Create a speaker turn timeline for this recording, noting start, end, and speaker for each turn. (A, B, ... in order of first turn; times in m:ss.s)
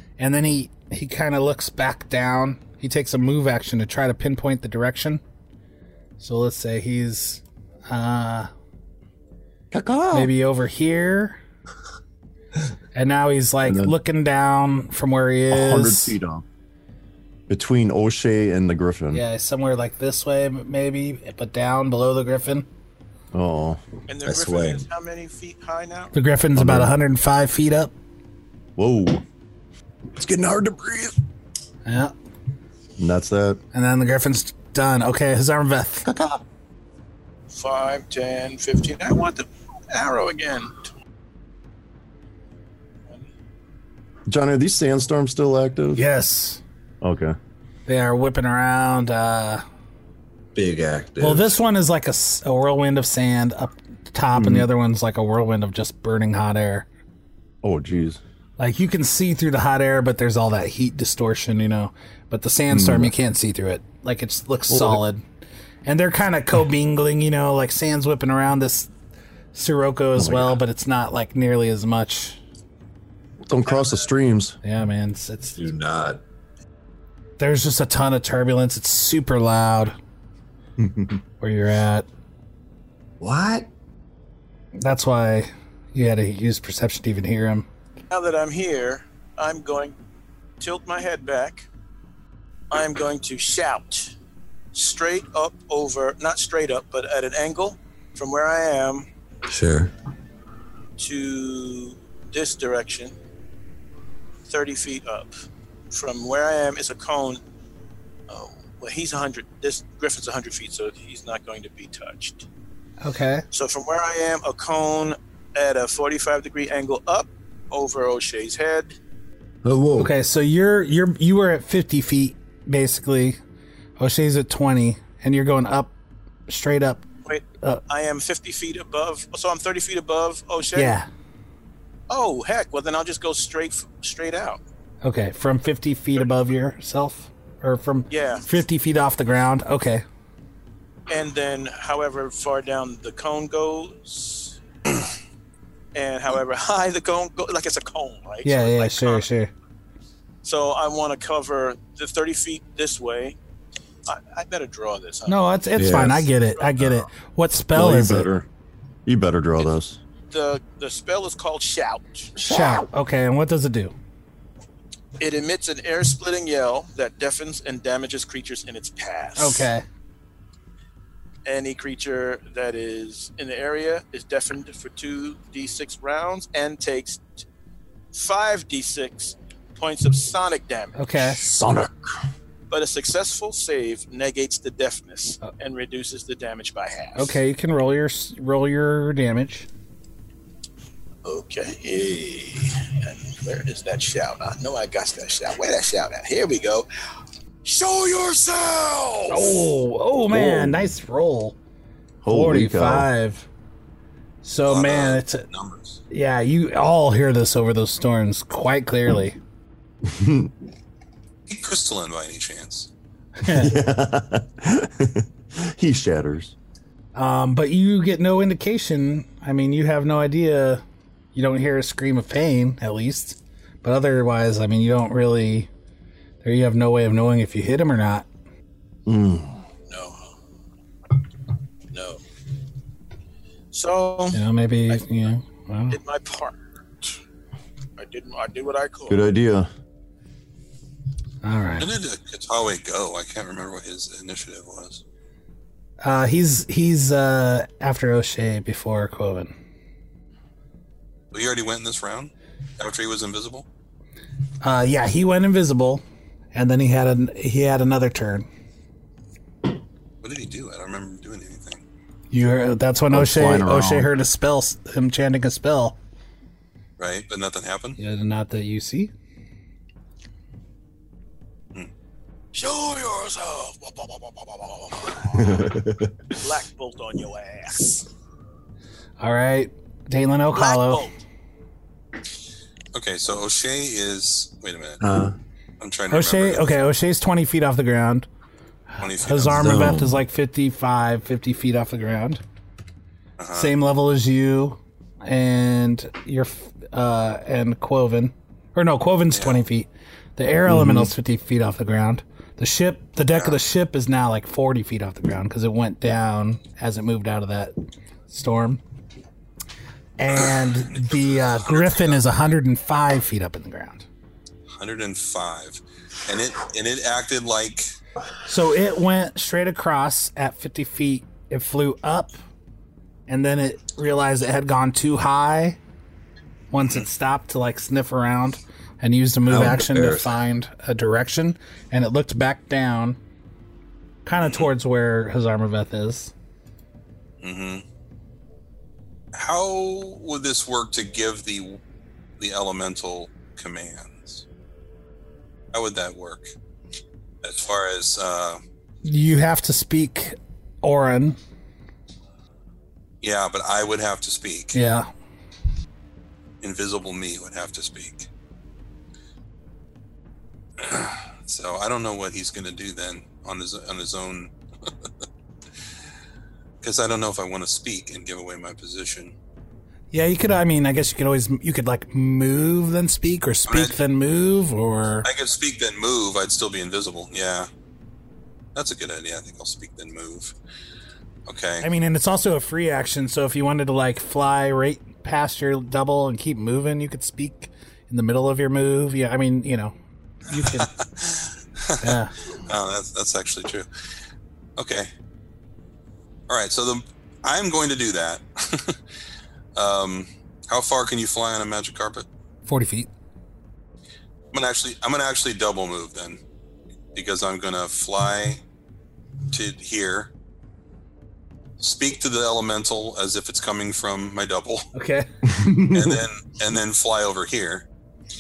0:00.2-0:05.2 A
0:06.2-0:08.5 A
0:09.7-0:10.3 B
0:10.1-0:11.4 A
0:13.0-0:16.2 A
0:13.6-0:14.0 B
0:15.5-0:16.4 B
0:17.5-0:19.2 B
0:19.1-0:22.7 A
0:23.3-0:23.8 B
0:24.1-0:26.1 C
0:24.2-0:24.9 D
0:26.1-0:27.9 A
0:26.6-0:27.0 B
0:28.8-0:29.2 B
0:30.1-0:31.2 B
0:31.8-0:32.1 A
0:33.0-0:33.6 B
0:33.7-0:36.1 A
0:36.0-0:36.4 B
0:37.5-0:40.9 C
0:44.3-0:46.0 B
0:46.0-0:46.6 A
0:47.0-0:47.4 B
0:47.9-0:49.6 A
0:50.6-0:51.5 D
0:51.2-0:56.9 A
0:54.3-0:54.7 B
0:57.6-0:58.2 B
0:58.6-1:05.2 A
1:02.7-1:03.1 B
1:04.7-1:05.0 B
1:05.8-1:08.9 A
1:09.5-1:12.4 A
1:10.1-1:10.6 B
1:13.4-1:14.6 B
1:14.6-1:15.6 A
1:15.6-1:16.2 D
1:17.4-1:20.0 A
1:20.8-1:21.2 B
1:21.4-1:22.0 A
1:23.2-1:23.7 D
1:24.7-1:27.7 A
1:28.1-1:30.0 C
1:30.6-1:31.7 C
1:32.7-1:34.1 C
1:34.7-1:39.1 C
1:39.5-1:39.9 D
1:41.0-1:43.1 C
1:44.5-1:45.3 C
1:45.9-1:47.4 C
1:48.3-1:52.4 C
1:53.0-1:53.4 A
1:53.5-1:58.9 C
1:59.6-2:00.1 D
2:00.0-2:03.4 A
2:04.0-2:05.9 A
2:06.5-2:07.0 A
2:07.3-2:11.0 C
2:10.7-2:11.1 A
2:12.1-2:14.6 C
2:15.0-2:20.0 A
2:18.1-2:18.4 C
2:21.1-2:24.6 C
2:25.9-2:29.3 C
2:28.4-2:29.5 A
2:30.4-2:33.4 C
2:34.0-2:35.4 C
2:35.3-2:38.3 A
2:35.8-2:36.3 D
2:36.6-2:36.8 C
2:37.7-2:38.5 B
2:39.0-2:40.0 B
2:40.3-2:42.3 C
2:42.4-2:43.9 A
2:45.2-2:49.7 C
2:49.4-2:49.8 A
2:51.4-2:57.2 C
2:58.1-3:01.4 C
3:01.0-3:01.4 A
3:01.4-3:02.1 B
3:02.7-3:07.4 C
3:07.2-3:09.7 A
3:11.2-3:16.9 C
3:17.6-3:19.7 C
3:19.3-3:21.6 A
3:20.3-3:20.9 B
3:22.2-3:23.1 B
3:22.3-3:23.5 A
3:24.4-3:25.4 A
3:24.7-3:26.0 E
3:26.1-3:29.4 A
3:30.0-3:30.5 B
3:31.5-3:32.9 E
3:33.4-3:33.7 A
3:33.5-3:36.5 B
3:37.1-3:40.8 A
3:41.4-3:45.7 A
3:46.4-3:48.3 A
3:49.0-3:49.6 B
3:49.9-3:50.4 C
3:51.9-3:52.2 C
3:53.7-3:54.4 C
3:54.3-3:56.0 A
3:55.9-3:56.6 C
3:58.0-3:59.2 C
3:59.1-3:59.7 B
4:01.4-4:01.9 A
4:01.8-4:05.0 E
4:06.0-4:09.5 A
4:11.3-4:13.6 E
4:14.6-4:16.0 A
4:16.5-4:18.5 A
4:20.2-4:21.8 E
4:22.3-4:26.0 A
4:23.1-4:24.1 B
4:27.0-4:28.0 E
4:28.0-4:29.1 A
4:32.5-4:35.7 C
4:36.3-4:38.0 C
4:39.2-4:41.0 A
4:40.5-4:41.2 C
4:42.9-4:45.0 E
4:45.0-4:45.4 D
4:45.8-4:46.8 E
4:46.1-4:48.3 A
4:49.0-4:52.4 A
4:49.0-4:49.6 E
4:49.5-4:50.2 D
4:53.4-4:53.7 E
4:53.5-5:07.8 A
4:59.3-4:59.6 E
5:00.7-5:01.1 B
5:08.3-5:08.8 A
5:10.2-5:14.0 A
5:11.1-5:12.3 E
5:14.8-5:17.9 E
5:18.4-5:22.4 A
5:23.3-5:25.8 A
5:26.7-5:33.2 A
5:26.8-5:27.0 E
5:29.5-5:30.3 D
5:34.3-5:36.3 A
5:34.4-5:34.7 E
5:37.4-5:37.8 E
5:39.3-5:41.8 E
5:42.4-5:44.4 E
5:45.7-5:46.5 E
5:47.4-5:48.6 E
5:49.0-5:51.4 A
5:53.2-5:54.8 E
5:54.7-5:55.1 A
5:56.6-5:58.3 E
6:00.8-6:04.5 E
6:06.8-6:09.3 E
6:10.1-6:15.3 A
6:13.7-6:14.0 E
6:15.2-6:17.7 E
6:18.7-6:20.5 E
6:21.5-6:21.9 E
6:21.8-6:30.0 A
6:30.5-6:30.9 A
6:30.7-6:33.9 E
6:32.0-6:32.3 A
6:34.8-6:35.1 E
6:36.5-6:39.0 E
6:39.7-6:42.2 E
6:42.7-6:43.1 A
6:44.5-6:46.4 E
6:47.1-6:48.6 E
6:49.5-6:50.3 E
6:51.8-6:54.9 E
6:54.9-6:55.3 A
6:55.4-6:56.2 B
6:55.9-6:57.8 E